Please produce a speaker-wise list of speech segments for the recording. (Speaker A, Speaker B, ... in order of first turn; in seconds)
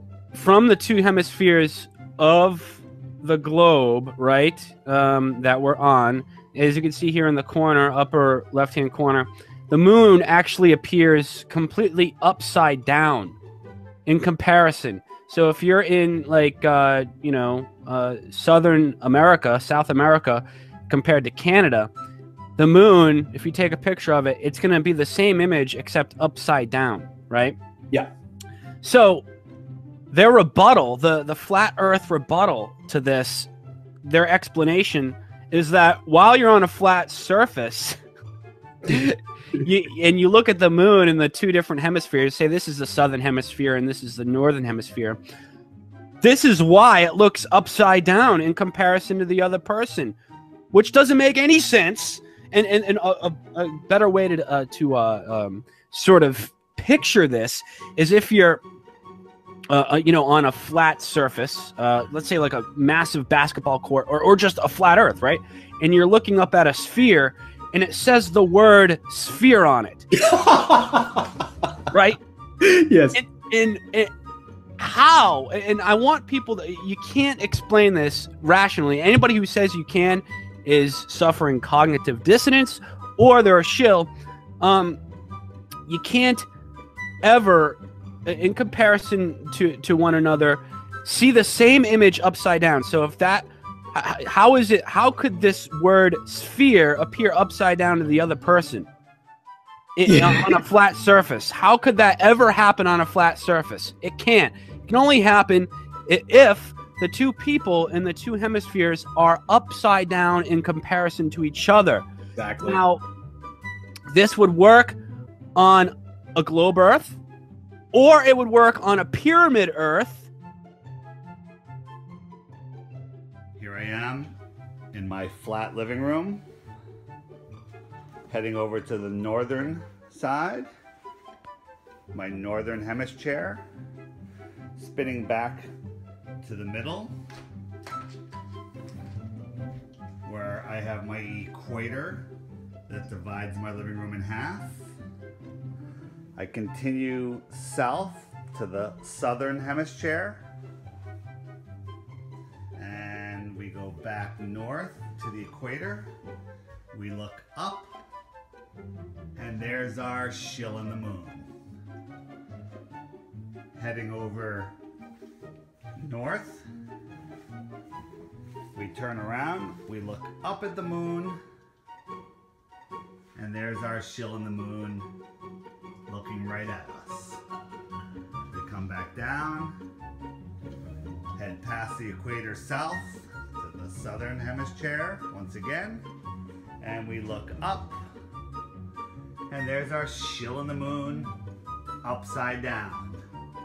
Speaker A: 0.3-13.4, 14.1-21.9, 22.6-27.6, 28.8-29.2, 30.1-33.5, 34.0-38.0, 38.9-45.2, 46.2-50.1, 50.7-58.6, 59.7-70.1, 71.9-72.2, 73.1-74.1, 74.8-85.0, 85.9-86.5, 87.2-98.9, 100.0-112.1, 112.6-113.0, 114.1-115.0, 115.6-117.2, 117.9-120.3
Speaker B: 70.2-71.3, 72.6-73.2, 100.1-100.6, 112.4-112.8
Speaker C: 123.6-124.3, 124.9-126.4, 128.3-130.7, 132.1-133.6, 134.8-135.7, 136.4-137.1, 140.2-142.3, 142.9-144.8, 146.4-150.4, 152.8-156.1, 156.9-157.9, 159.4-161.5, 163.8-164.8, 166.0-166.7, 168.8-171.4, 173.4-175.1, 176.1-177.4, 178.5-179.8, 181.4-186.0, 186.8-188.0, 189.5-191.3, 192.0-193.2